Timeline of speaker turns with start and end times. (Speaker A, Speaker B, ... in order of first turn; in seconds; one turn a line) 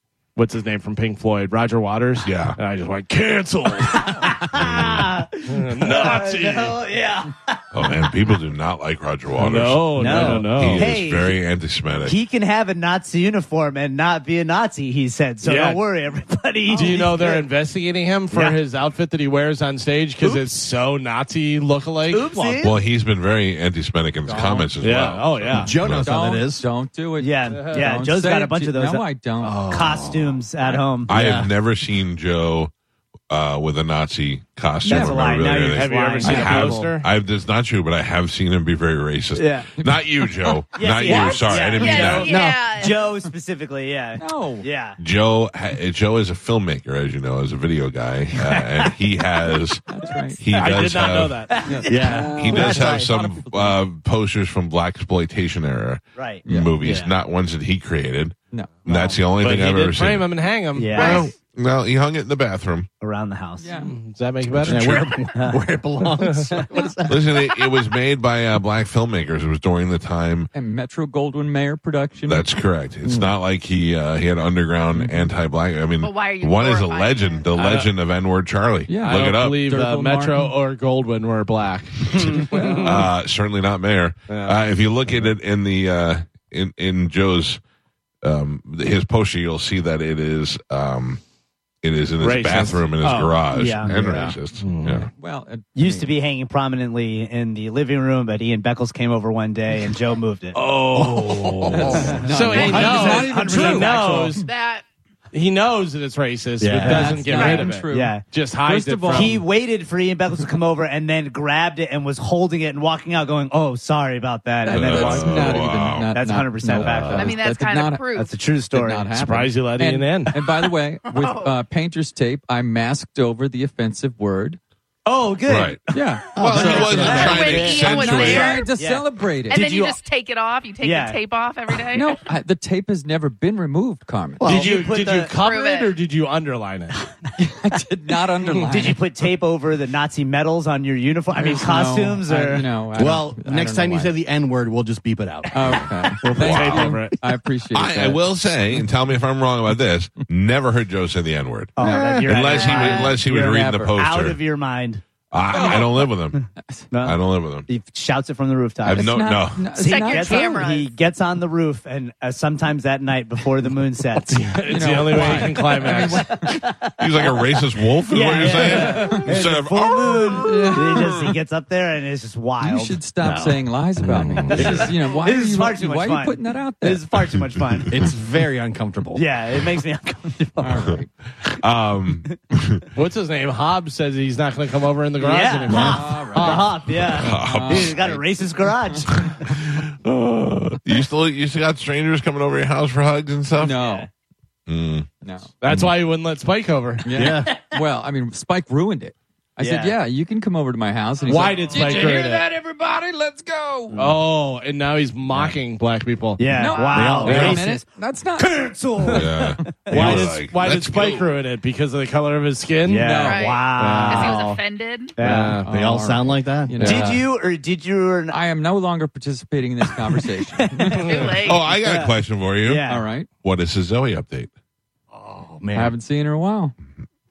Speaker A: 0.3-4.3
Speaker B: 2.2-2.6
Speaker C: 3.9-7.7
Speaker B: 4.5-5.2
Speaker A: 5.5-6.8
Speaker B: 7.7-12.2
Speaker A: 9.3-10.9
Speaker C: 9.9-11.4
Speaker C: 12.0-17.4
Speaker A: 15.4-15.8
Speaker A: 16.7-22.6
Speaker C: 18.3-18.6
Speaker C: 22.1-22.7
Speaker B: 22.6-26.1
Speaker D: 24.3-24.6
Speaker A: 24.8-25.8
Speaker D: 25.5-26.7
Speaker E: 26.0-29.7
Speaker C: 27.2-29.1
Speaker A: 27.5-27.9
Speaker D: 29.4-30.4
Speaker C: 29.6-31.1
Speaker D: 31.1-31.5
Speaker B: 31.1-32.7
Speaker B: 33.3-42.4
Speaker E: 34.8-35.2
Speaker C: 34.8-36.9
Speaker A: 35.6-37.0
Speaker C: 39.4-39.7
Speaker E: 39.8-40.0
Speaker C: 40.7-45.0
Speaker F: 41.0-43.0
Speaker D: 42.2-42.7
Speaker E: 44.2-44.7
Speaker B: 45.0-51.5
Speaker C: 48.4-48.9
Speaker E: 49.9-50.4
Speaker A: 50.5-51.6
Speaker C: 51.5-53.0
Speaker E: 51.6-53.8
Speaker D: 51.9-53.0
Speaker B: 52.4-60.3
Speaker C: 56.1-57.1
Speaker E: 56.5-56.9
Speaker E: 58.5-59.1
Speaker A: 59.4-61.0
Speaker C: 60.7-61.3
Speaker B: 60.9-62.9
Speaker F: 60.9-61.3
Speaker C: 63.0-63.7
Speaker E: 63.6-63.9
Speaker A: 63.8-65.2
Speaker D: 64.5-67.5
Speaker B: 64.7-65.0
Speaker C: 65.3-65.6
Speaker A: 66.2-66.5
Speaker B: 67.1-70.5
Speaker E: 70.5-72.5
Speaker B: 72.2-79.6
Speaker D: 73.0-73.3
Speaker E: 75.0-75.2
Speaker F: 76.0-77.5
Speaker A: 77.5-77.9
Speaker E: 78.9-80.5
Speaker A: 79.0-83.1
Speaker B: 82.1-87.6
Speaker A: 84.3-84.6
Speaker B: 88.2-91.2
Speaker B: 91.8-95.1
Speaker A: 92.2-93.3
Speaker C: 93.0-94.3
Speaker D: 93.8-94.3
Speaker A: 94.6-95.1
Speaker E: 95.1-96.1
Speaker C: 95.7-100.6
Speaker A: 100.5-104.5
Speaker D: 100.9-102.3
Speaker E: 101.7-104.2
Speaker C: 101.9-104.3
Speaker F: 104.4-104.8
Speaker A: 105.3-109.5
Speaker C: 106.6-108.2
Speaker E: 106.8-109.4
Speaker F: 107.3-107.7
Speaker C: 109.1-117.3
Speaker E: 114.7-118.0
Speaker B: 114.7-116.1
Speaker A: 116.8-117.3
Speaker F: 117.1-118.3
Speaker C: 118.1-119.2
Speaker E: 118.7-124.6
Speaker A: 119.1-120.3
Speaker F: 121.1-121.5
Speaker C: 125.0-130.0
Speaker B: 125.5-125.8
Speaker E: 125.9-129.6
Speaker D: 126.3-127.2
Speaker B: 126.3-128.6
Speaker F: 127.0-128.7
Speaker F: 129.5-132.2
Speaker C: 130.8-131.2
Speaker E: 131.9-134.7
Speaker D: 134.4-134.8
Speaker A: 134.4-136.9
Speaker C: 134.4-135.3
Speaker F: 135.3-136.0
Speaker E: 137.4-139.0
Speaker C: 138.6-142.7
Speaker E: 141.3-144.1
Speaker D: 142.9-146.2
Speaker E: 145.5-148.8
Speaker A: 146.2-147.2
Speaker B: 146.3-146.9
Speaker B: 147.7-154.4
Speaker C: 151.8-155.0
Speaker D: 151.8-152.3
Speaker F: 152.5-153.1
Speaker B: 155.3-156.5
Speaker E: 155.5-155.9
Speaker E: 156.6-156.9
Speaker C: 156.9-159.2
Speaker B: 157.0-157.7
Speaker B: 158.8-159.7
Speaker E: 158.9-160.7
Speaker C: 159.7-173.0
Speaker F: 159.8-160.9
Speaker A: 164.3-166.3
Speaker E: 164.7-166.5
Speaker B: 167.0-171.3
Speaker A: 168.6-169.1
Speaker E: 168.9-169.2
Speaker E: 170.4-170.9
Speaker E: 172.6-177.0
Speaker D: 173.2-173.5
Speaker A: 174.0-174.7
Speaker D: 174.2-174.6
Speaker C: 174.5-178.0
Speaker B: 174.6-174.9
Speaker D: 177.9-179.2
Speaker C: 179.1-181.0
Speaker E: 180.6-181.1
Speaker B: 181.4-182.9
Speaker A: 182.9-186.9
Speaker C: 185.2-189.5
Speaker D: 185.7-186.0
Speaker E: 185.7-188.2
Speaker B: 187.1-188.2
Speaker E: 188.9-189.3
Speaker B: 189.2-193.8
Speaker E: 193.6-194.1
Speaker C: 193.8-194.1
Speaker B: 194.7-195.1
Speaker E: 195.2-195.5
Speaker A: 195.6-197.2
Speaker E: 197.0-204.0
Speaker D: 197.1-197.6
Speaker C: 199.6-200.0
Speaker A: 201.2-202.5
Speaker C: 201.4-201.8
Speaker A: 203.9-206.5
Speaker C: 206.4-210.3
Speaker E: 206.5-208.7
Speaker F: 206.7-207.1
Speaker D: 206.9-207.6
Speaker A: 207.2-207.6
Speaker B: 209.1-211.3
Speaker A: 209.9-213.2
Speaker C: 212.8-214.6
Speaker E: 213.0-213.6
Speaker F: 213.2-215.1
Speaker A: 213.7-214.6
Speaker C: 215.2-215.6
Speaker A: 215.2-215.7
Speaker E: 215.6-217.2
Speaker D: 215.7-217.1
Speaker A: 216.8-217.1
Speaker C: 216.8-218.4
Speaker E: 218.3-221.1
Speaker C: 220.6-223.1
Speaker F: 221.0-221.6
Speaker B: 221.4-222.8
Speaker E: 222.8-223.3
Speaker B: 223.4-224.5
Speaker D: 225.1-225.9
Speaker E: 225.7-226.7